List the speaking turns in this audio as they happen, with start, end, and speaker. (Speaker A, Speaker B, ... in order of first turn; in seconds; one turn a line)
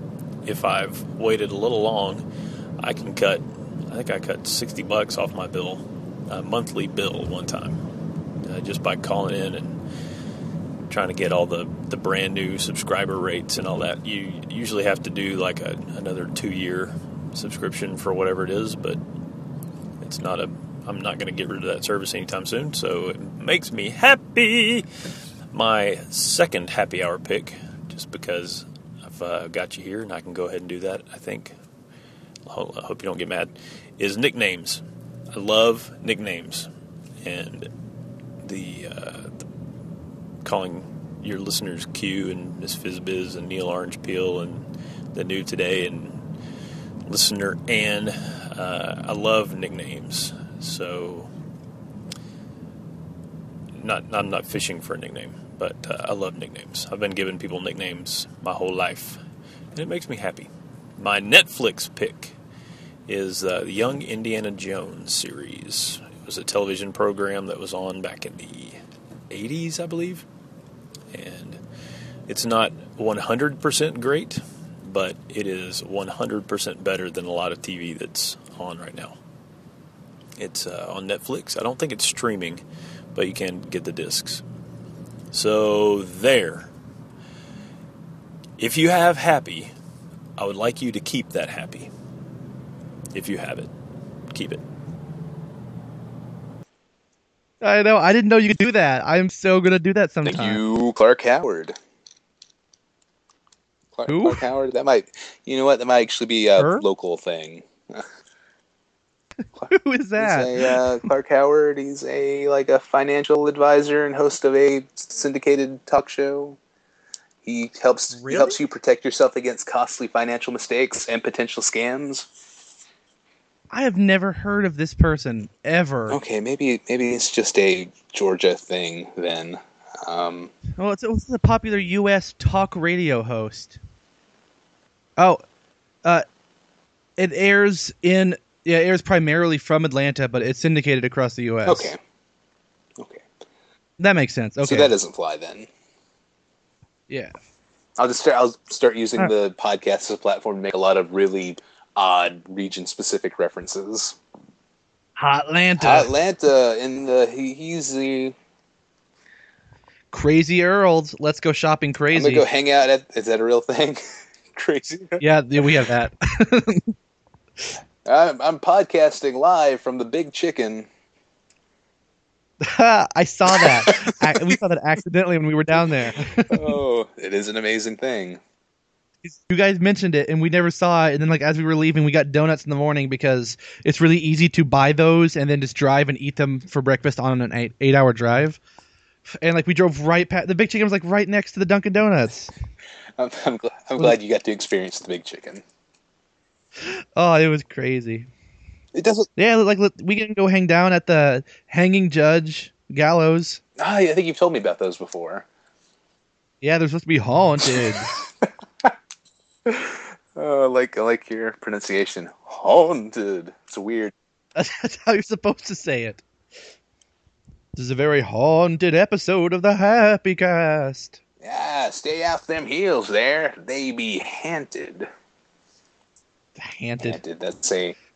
Speaker A: 0.5-2.2
Speaker A: 2.8-7.8
Speaker A: 8.4-9.8
Speaker A: 10.9-19.0
Speaker A: 20.0-24.9
Speaker A: 25.5-31.6
Speaker A: 32.5-34.8
Speaker A: 35.3-36.7
Speaker A: 37.2-37.7
Speaker A: 38.4-39.4
Speaker A: 40.4-46.2
Speaker A: 47.1-51.3
Speaker A: 53.8-59.2
Speaker A: 59.7-62.4
Speaker A: 63.1-68.8
Speaker A: 69.3-70.3
Speaker A: 71.1-71.6
Speaker A: 72.3-79.2
Speaker A: 80.4-82.6
Speaker A: 83.1-84.4
Speaker A: 85.3-86.7
Speaker A: 88.6-89.7
Speaker A: 90.4-91.9
Speaker A: 93.1-93.7
Speaker A: 94.3-94.6
Speaker B: 97.6-100.6
Speaker C: 100.2-101.8
Speaker C: 103.9-108.1
Speaker B: 104.1-104.4
Speaker B: 106.6-106.8
Speaker C: 109.6-116.6
Speaker B: 109.7-110.8
Speaker C: 117.4-122.3
Speaker B: 118.1-118.6
Speaker B: 123.7-126.2
Speaker C: 126.1-130.5
Speaker B: 130.8-133.8
Speaker B: 137.2-141.9
Speaker C: 141.7-142.0
Speaker C: 143.0-143.2
Speaker B: 144.0-144.9
Speaker C: 144.6-145.7
Speaker B: 147.1-147.3
Speaker C: 148.0-154.2
Speaker B: 155.2-156.1
Speaker C: 155.8-158.3
Speaker B: 160.1-162.4
Speaker C: 162.1-164.0
Speaker C: 164.5-165.2
Speaker B: 165.2-166.9
Speaker C: 168.1-170.9
Speaker B: 172.6-176.7
Speaker C: 173.5-174.6
Speaker C: 176.4-178.4
Speaker B: 179.2-188.6
Speaker B: 189.4-192.5
Speaker C: 193.2-195.6
Speaker B: 196.8-198.3
Speaker C: 198.9-199.3
Speaker B: 199.4-203.6
Speaker C: 203.8-205.5
Speaker B: 206.6-208.1
Speaker C: 207.7-208.9
Speaker C: 209.7-214.1
Speaker B: 214.6-216.2
Speaker B: 217.8-221.2
Speaker C: 221.4-225.1
Speaker B: 226.6-227.2
Speaker C: 227.0-228.0